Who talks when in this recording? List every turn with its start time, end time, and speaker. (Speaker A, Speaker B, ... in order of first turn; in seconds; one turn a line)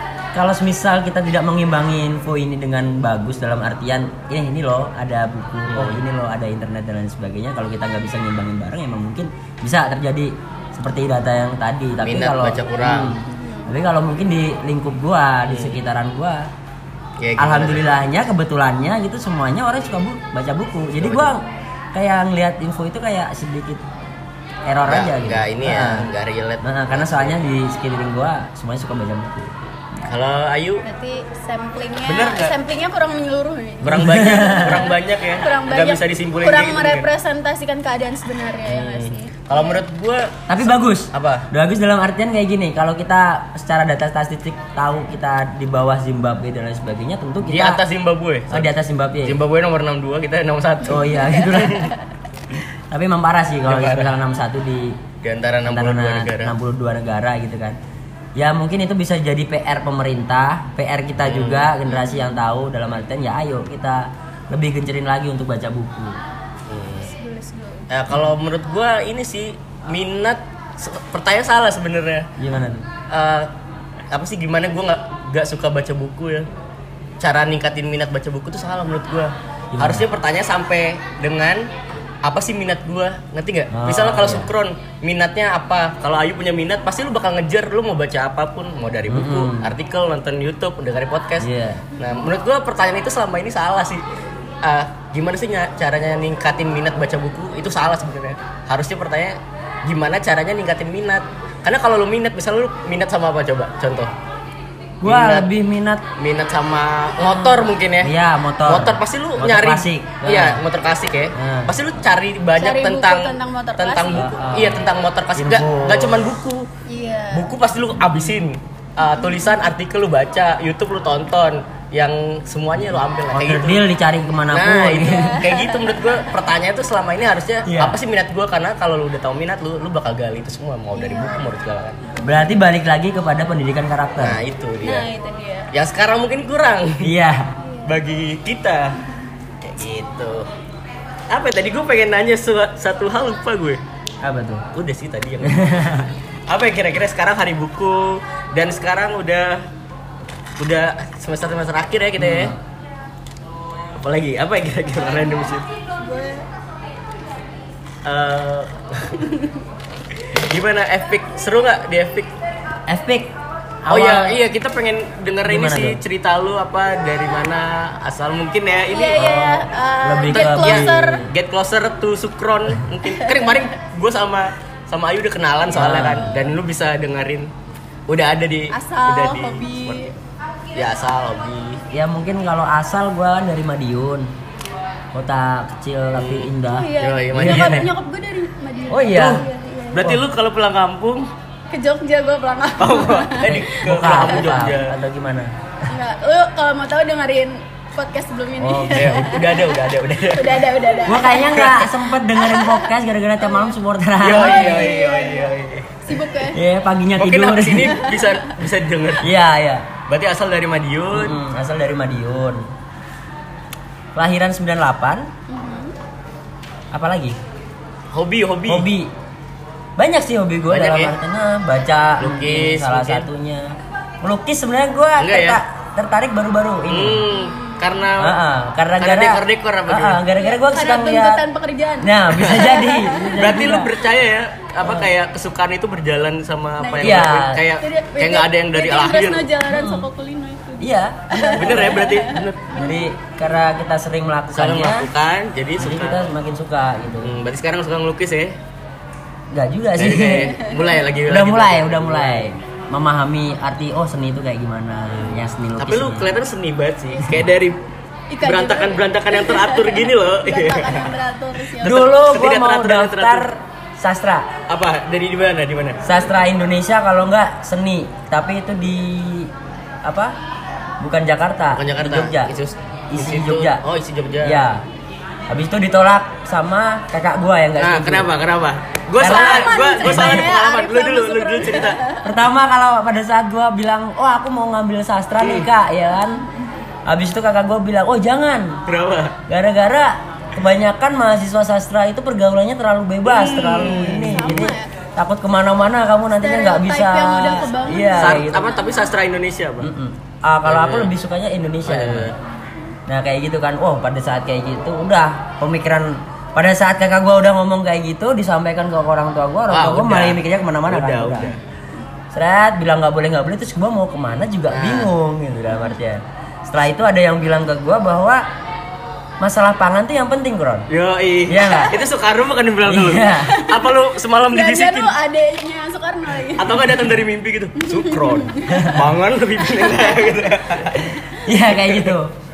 Speaker A: 0.3-16.5
Speaker B: 5.7-6.0
Speaker B: 12.0-13.2
Speaker C: 13.2-13.7
Speaker B: 15.5-15.8
Speaker B: 17.2-17.9
Speaker A: 17.4-23.9
Speaker B: 21.0-21.4
Speaker A: 24.7-26.1
Speaker B: 24.9-27.4
Speaker A: 26.6-29.6
Speaker B: 30.1-30.8
Speaker C: 30.8-39.8
Speaker B: 32.1-32.5
Speaker B: 33.8-37.1
Speaker A: 33.9-34.9
Speaker B: 38.7-41.5
Speaker A: 40.5-47.8
Speaker B: 47.4-51.9
Speaker A: 48.5-49.4
Speaker A: 50.9-51.9
Speaker C: 51.0-51.8
Speaker A: 52.9-55.0
Speaker B: 53.7-54.1
Speaker B: 55.2-56.5
Speaker A: 55.7-57.8
Speaker A: 58.4-66.2
Speaker B: 61.2-61.7
Speaker C: 61.9-62.4
Speaker B: 66.7-67.1
Speaker C: 67.1-67.9
Speaker B: 67.9-72.3
Speaker A: 72.4-72.9
Speaker B: 73.1-73.5
Speaker B: 74.1-76.5
Speaker B: 77.2-81.7
Speaker A: 79.7-80.1
Speaker B: 82.2-94.0
Speaker A: 83.7-84.5
Speaker A: 89.1-89.7
Speaker A: 91.4-91.8
Speaker B: 94.6-104.1
Speaker A: 105.0-106.0
Speaker B: 105.0-105.5
Speaker B: 106.2-108.1
Speaker A: 107.3-110.6
Speaker B: 108.7-116.7
Speaker A: 111.3-111.7
Speaker C: 112.6-114.3
Speaker A: 114.2-116.3
Speaker C: 116.9-117.5
Speaker B: 117.3-123.8
Speaker C: 119.0-119.4
Speaker A: 123.3-125.4
Speaker B: 124.5-132.1
Speaker C: 125.0-126.2
Speaker A: 127.7-128.0
Speaker C: 130.9-131.5
Speaker A: 132.2-134.4
Speaker B: 134.2-135.1
Speaker C: 134.8-135.7
Speaker B: 135.7-137.1
Speaker A: 137.0-137.5
Speaker C: 137.6-137.9
Speaker B: 137.8-139.0
Speaker B: 139.6-140.5
Speaker B: 141.3-143.8
Speaker A: 144.2-144.7
Speaker B: 144.7-145.9
Speaker A: 145.4-146.1
Speaker B: 146.5-149.6
Speaker B: 150.6-152.6
Speaker A: 152.2-152.6
Speaker B: 154.0-155.7
Speaker C: 156.0-156.4
Speaker B: 158.1-159.3
Speaker B: 160.2-162.3
Speaker A: 162.9-163.3
Speaker A: 163.8-164.4
Speaker B: 163.9-169.4
Speaker A: 165.4-166.0
Speaker C: 168.9-171.3
Speaker A: 169.2-171.3
Speaker B: 170.3-177.5
Speaker C: 173.1-173.4
Speaker A: 175.7-176.3
Speaker B: 178.1-180.2
Speaker C: 178.7-180.1
Speaker B: 180.8-181.8
Speaker A: 181.9-184.3
Speaker A: 185.1-187.9
Speaker B: 186.2-187.9
Speaker C: 186.7-190.2
Speaker A: 188.9-189.4
Speaker B: 189.2-189.4
Speaker B: 189.9-191.3
Speaker C: 191.7-193.6
Speaker B: 192.8-194.9
Speaker A: 193.5-195.5
Speaker C: 195.9-201.7
Speaker A: 198.6-199.2
Speaker B: 198.9-201.9
Speaker A: 201.1-204.9
Speaker C: 202.4-202.9
Speaker C: 203.4-203.7
Speaker B: 204.2-206.0
Speaker C: 204.3-205.5
Speaker C: 206.1-206.6
Speaker A: 206.4-208.0
Speaker B: 207.2-209.3
Speaker C: 207.9-208.5
Speaker A: 209.2-209.9
Speaker B: 210.1-211.4
Speaker A: 211.1-212.7
Speaker A: 214.2-215.3
Speaker C: 215.5-215.9
Speaker A: 216.9-217.4
Speaker B: 218.1-218.9
Speaker A: 218.7-219.1
Speaker A: 220.0-227.3
Speaker B: 220.7-221.2
Speaker B: 222.2-223.3
Speaker B: 225.2-225.6
Speaker B: 226.9-228.4
Speaker C: 227.3-228.0
Speaker A: 228.2-231.4
Speaker B: 229.0-230.2
Speaker C: 230.4-233.8
Speaker A: 232.0-233.9
Speaker B: 233.4-239.5
Speaker A: 234.8-235.1
Speaker C: 236.8-237.3
Speaker A: 237.0-237.6
Speaker C: 237.8-243.0
Speaker A: 239.7-240.1
Speaker A: 240.8-242.1
Speaker B: 241.6-242.7
Speaker A: 242.7-245.1
Speaker B: 244.5-246.3
Speaker A: 245.8-247.3
Speaker B: 247.2-248.6
Speaker A: 249.5-250.6
Speaker B: 250.0-252.6
Speaker C: 250.6-251.0
Speaker A: 251.3-256.3
Speaker B: 255.1-257.8
Speaker C: 258.3-262.2
Speaker B: 258.4-261.1
Speaker A: 261.8-264.5
Speaker B: 261.9-263.5
Speaker B: 264.7-266.0
Speaker A: 266.0-269.5
Speaker A: 270.0-270.4
Speaker A: 271.0-272.5
Speaker B: 271.8-274.7
Speaker A: 273.1-273.8
Speaker A: 274.4-274.8
Speaker A: 275.5-278.3
Speaker B: 277.8-282.0
Speaker A: 279.2-280.5
Speaker C: 279.2-282.3
Speaker A: 282.2-286.4
Speaker B: 285.4-285.7
Speaker C: 286.2-286.6
Speaker A: 287.1-288.8
Speaker B: 288.9-289.4
Speaker A: 289.5-298.7
Speaker B: 293.2-294.7
Speaker C: 294.0-294.9
Speaker C: 296.4-299.0
Speaker B: 298.2-299.9
Speaker A: 299.8-302.3
Speaker B: 300.6-301.1
Speaker B: 301.9-302.4
Speaker A: 303.1-311.6
Speaker B: 309.7-311.6
Speaker A: 312.3-318.4
Speaker B: 314.7-315.1
Speaker C: 315.7-316.0
Speaker A: 319.4-320.9
Speaker B: 320.9-325.1
Speaker A: 321.5-321.9
Speaker A: 322.9-323.6
Speaker C: 323.4-324.0
Speaker C: 324.5-326.8
Speaker B: 326.6-331.1
Speaker C: 327.8-329.0
Speaker A: 328.7-329.1
Speaker C: 329.6-330.2
Speaker A: 330.9-332.3
Speaker B: 331.7-332.2